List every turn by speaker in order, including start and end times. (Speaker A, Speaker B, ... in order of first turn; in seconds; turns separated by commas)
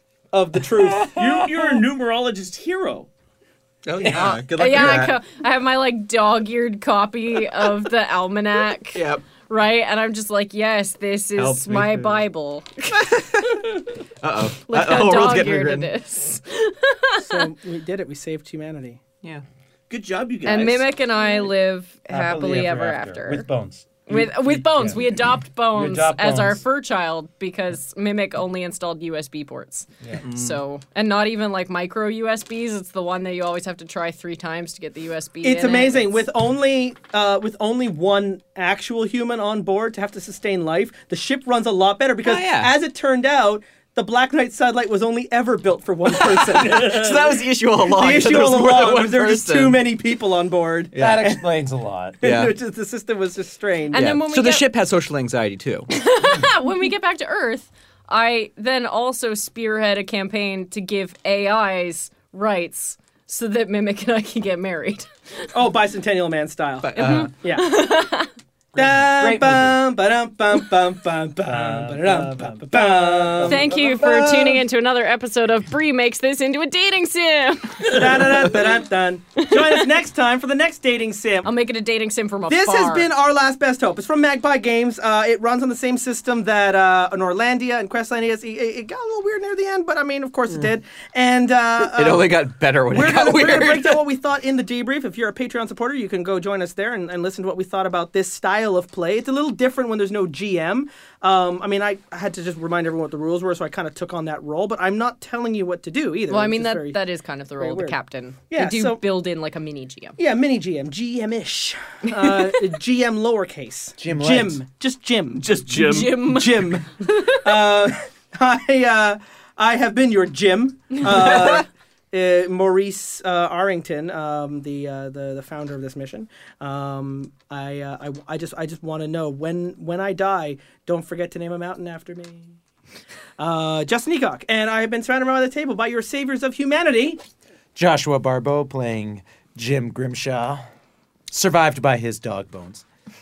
Speaker A: 0.3-1.2, Speaker B: 0.8-1.8, Speaker C: 1.1-3.1, Speaker D: 3.8-5.2, Speaker E: 4.1-13.0, Speaker D: 8.9-9.2, Speaker D: 11.3-12.2, Speaker D: 12.9-15.9, Speaker E: 14.7-17.4, Speaker A: 17.2-19.0, Speaker C: 19.9-20.9, Speaker E: 20.4-23.5, Speaker B: 22.1-25.1, Speaker E: 24.1-36.3, Speaker B: 25.7-26.6, Speaker D: 30.2-30.6, Speaker A: 35.4-51.4, Speaker D: 42.2-42.8, Speaker D: 46.2-49.8, Speaker D: 50.9-51.3, Speaker B: 51.0-52.2, Speaker A: 52.2-54.1, Speaker D: 52.2-52.5, Speaker E: 53.9-54.7, Speaker D: 53.9-55.9, Speaker E: 55.9-65.1, Speaker A: 65.5-67.7, Speaker D: 66.8-67.3, Speaker E: 66.9-68.3, Speaker D: 68.7-69.7, Speaker A: 68.7-74.6, Speaker B: 71.5-73.6, Speaker E: 73.4-78.5, Speaker A: 77.8-81.5, Speaker E: 79.4-79.8, Speaker E: 81.4-83.1, Speaker A: 82.5-107.0, Speaker D: 91.8-94.0, Speaker E: 106.3-110.2, Speaker A: 107.6-108.0, Speaker A: 108.5-109.0, Speaker A: 110.2-132.5, Speaker B: 114.0-114.6, Speaker C: 115.3-116.5, Speaker E: 115.7-117.7, Speaker D: 121.0-121.6, Speaker A: 133.4-137.2, Speaker B: 137.7-140.6, Speaker B: 141.3-142.8